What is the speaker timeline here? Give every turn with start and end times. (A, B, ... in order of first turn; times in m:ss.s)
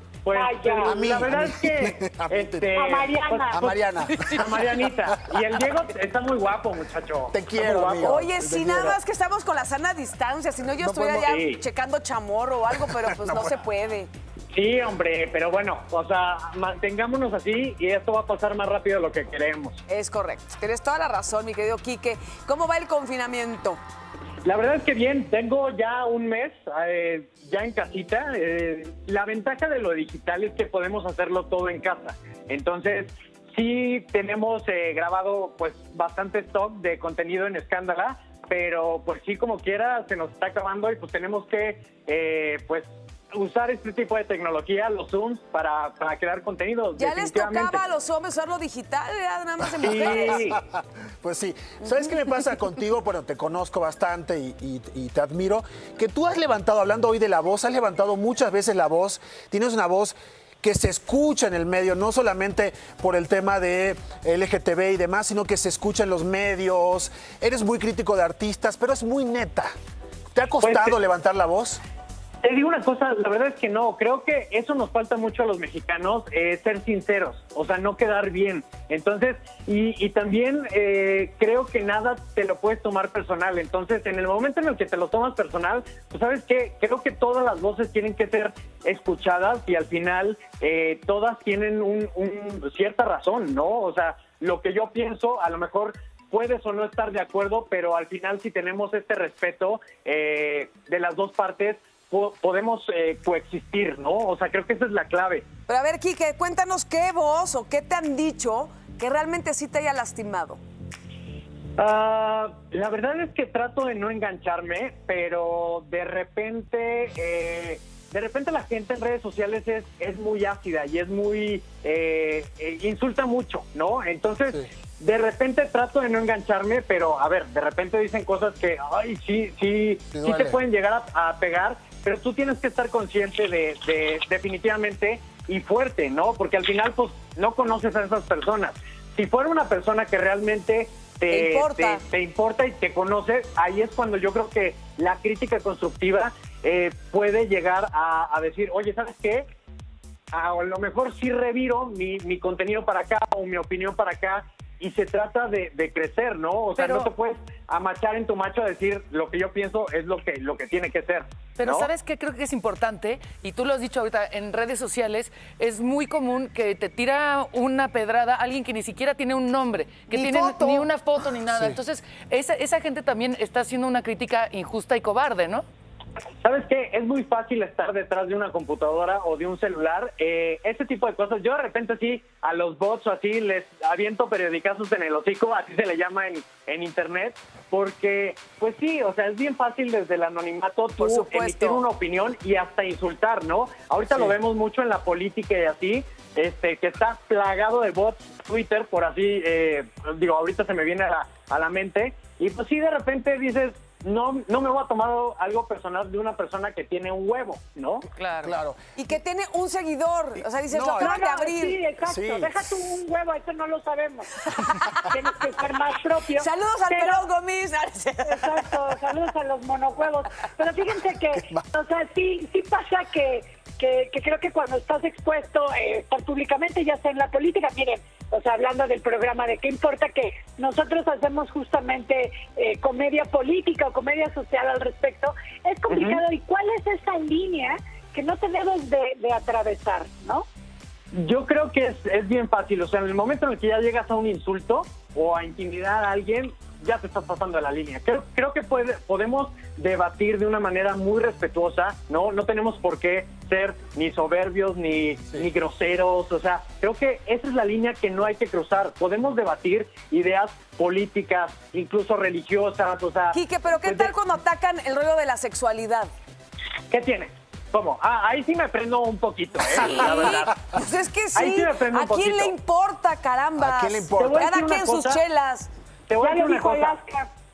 0:00.2-0:08.4 A
0:00.3-0:01.0 B
0:00.8-0:02.8 C
0:02.8-0:03.7 B
0:03.5-0:05.3 C
0:04.1-0:04.6 D
0:07.3-0:09.0 C
0:08.0-0:14.1 D
0:10.8-0:11.3 C
0:11.3-0:11.6 A
0:12.7-0:13.5 C
0:14.5-0:19.8 A
0:19.9-0:23.8 D
0:24.4-0:47.8 A
0:47.0-0:50.5 D
0:49.8-1:09.7 C
0:49.8-0:50.6 A
1:10.3-1:11.8 C
1:10.6-1:11.0 A
1:12.4-1:45.5 A
1:45.7-1:50.6 D
1:51.8-2:29.5 A
2:10.1-2:10.6 C
2:21.3-2:22.0 D
2:30.3-2:41.9 A
2:36.8-2:37.1 E
2:41.6-2:55.6 E
2:50.1-2:50.9 C
2:51.5-2:51.8 C
2:56.4-3:28.1 A
3:11.0-3:11.8 D
3:28.2-3:28.6 E
3:28.4-3:28.8 C
3:29.0-3:31.8 D
3:30.7-3:31.2 C
3:31.0-3:37.3 B
3:32.0-3:32.6 C
3:34.5-3:35.1 D
3:36.3-3:38.8 D
3:38.3-4:00.4 B
3:55.9-3:56.2 A
4:01.2-4:24.1 A
4:23.3-4:26.1 D
4:26.9-4:30.8 A
4:29.7-4:35.7 D
4:31.3-4:32.6 A
4:33.6-4:34.4 C
4:34.2-4:35.2 A
4:36.1-4:37.0 A
4:36.2-4:37.3 B